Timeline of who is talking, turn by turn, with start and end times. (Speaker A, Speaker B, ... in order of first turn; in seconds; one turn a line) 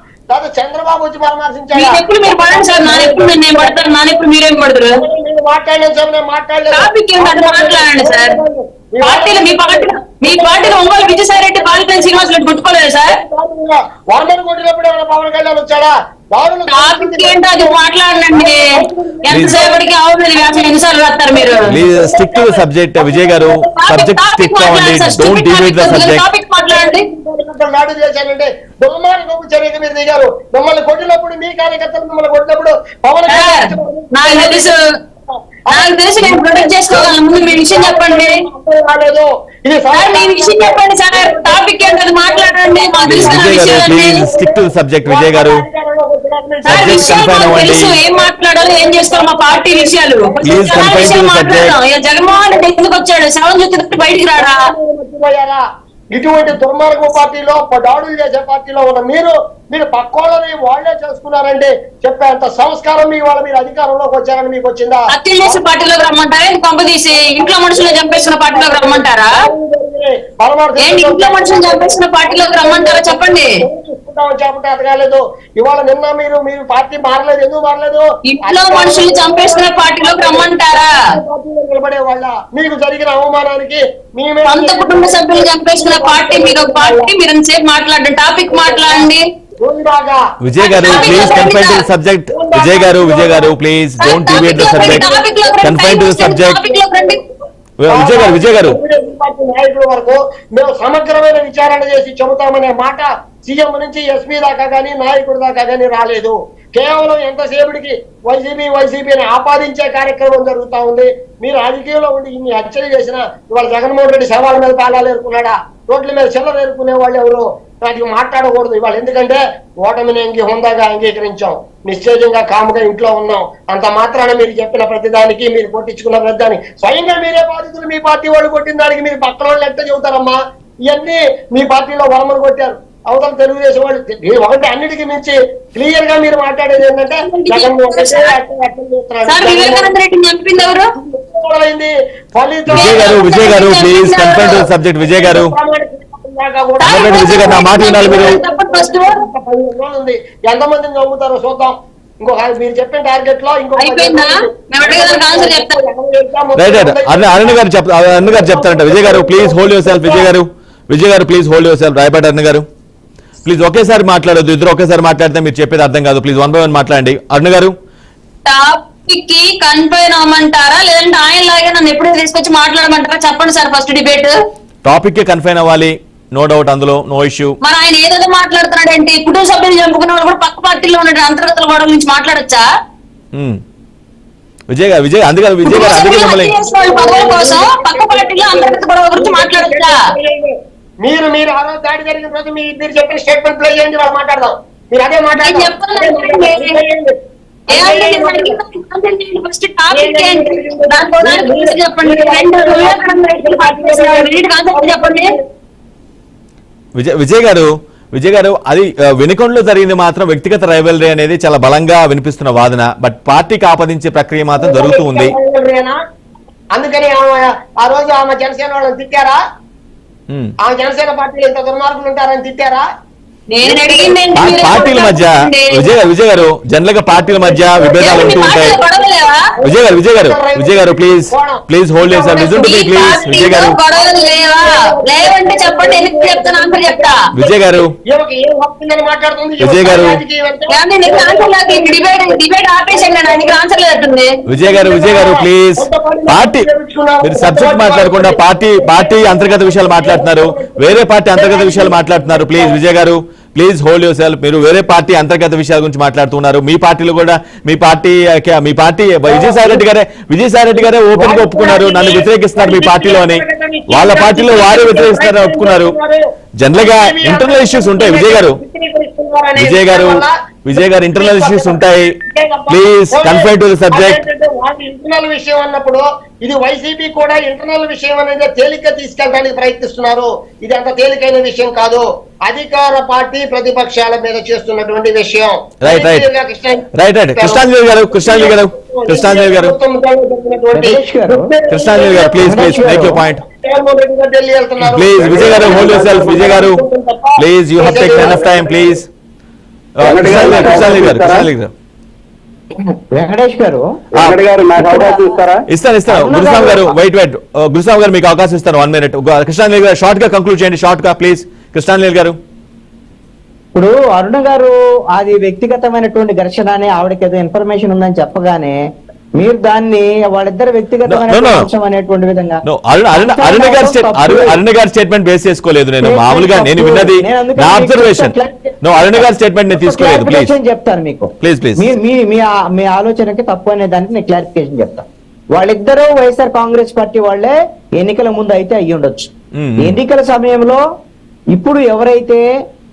Speaker A: 0.3-4.2
Speaker B: 1.7-4.9
Speaker A: 4.9-12.3
Speaker B: 6.7-8.4
Speaker B: 9.0-13.1
Speaker A: 13.1-17.8
Speaker B: 16.7-18.7
Speaker A: 18.3-19.9
Speaker B: 19.2-21.6
Speaker C: 19.3-19.6
Speaker A: 21.3-23.4
Speaker C: 21.7-26.2
Speaker B: 23.5-27.0
Speaker A: 26.7-34.7
Speaker B: 33.3-33.6
Speaker B: 34.1-34.8
Speaker A: 35.2-51.1
Speaker B: 35.7-38.4
Speaker B: 39.9-44.2
Speaker C: 43.0-45.6
Speaker B: 46.6-54.6
Speaker C: 46.7-47.9
Speaker C: 50.4-51.8
Speaker A: 54.3-65.6
Speaker B: 65.1-69.3
Speaker A: 67.1-87.1
Speaker B: 70.8-73.5
Speaker B: 78.3-80.9
Speaker B: 84.5-89.2
Speaker A: 88.5-90.2
Speaker C: 90.4-95.1
Speaker B: 90.6-91.8
Speaker A: 90.8-91.6
Speaker A: 92.3-96.0
Speaker B: 94.0-97.2
Speaker C: 95.6-96.6
Speaker A: 96.6-97.2
Speaker C: 97.8-98.8
Speaker A: 97.9-139.9
Speaker B: 137.2-138.3
Speaker B: 139.3-140.9
Speaker A: 140.6-143.2
Speaker C: 142.7-145.5
Speaker B: 142.7-144.6
Speaker A: 144.2-157.6
Speaker B: 146.8-149.1
Speaker C: 146.8-148.4
Speaker B: 153.8-155.8
Speaker C: 156.6-162.6
Speaker A: 158.2-160.3
Speaker C: 163.4-167.7
Speaker B: 168.4-174.3
Speaker C: 174.8-177.6
Speaker B: 177.6-182.6
Speaker C: 183.3-183.6
Speaker C: 184.7-186.5
Speaker B: 185.6-190.0
Speaker A: 186.6-197.1
Speaker B: 195.4-196.8
Speaker A: 197.7-198.6
Speaker B: 197.7-205.3
Speaker A: 199.9-205.4
Speaker C: 207.0-215.3
Speaker A: 214.6-215.9
Speaker A: 216.7-219.4
Speaker A: 220.6-222.8
Speaker B: 223.5-226.0
Speaker A: 223.6-225.0
Speaker C: 224.3-228.8
Speaker A: 227.1-243.7
Speaker B: 228.0-229.4
Speaker C: 229.6-233.7
Speaker B: 232.5-237.2
Speaker C: 237.3-237.9
Speaker C: 239.6-240.2
Speaker B: 240.7-244.3
Speaker C: 244.5-246.7
Speaker A: 244.6-252.8
Speaker C: 247.2-265.9
Speaker A: 259.2-259.8
Speaker A: 260.8-286.8
Speaker C: 266.6-268.6
Speaker C: 269.6-272.1
Speaker C: 272.7-274.2
Speaker C: 285.8-286.3
Speaker C: 286.9-289.7
Speaker A: 287.3-298.9
Speaker D: 290.7-291.5
Speaker C: 291.7-293.4
Speaker D: 292.4-293.2
Speaker C: 294.8-296.8
Speaker E: 295.3-296.4
Speaker C: 297.4-299.1
Speaker C: 300.0-301.7
Speaker E: 300.0-301.5
Speaker D: 300.3-300.9
Speaker D: 302.8-304.0
Speaker C: 304.1-304.4
Speaker E: 304.2-305.6
Speaker D: 304.7-305.4
Speaker C: 305.7-312.4
Speaker D: 306.1-307.0
Speaker D: 313.7-318.8
Speaker D: 319.4-324.6
Speaker C: 321.1-321.7
Speaker C: 322.6-330.5
Speaker D: 326.0-340.8
Speaker C: 331.4-331.8
Speaker C: 339.5-340.0
Speaker D: 341.5-342.4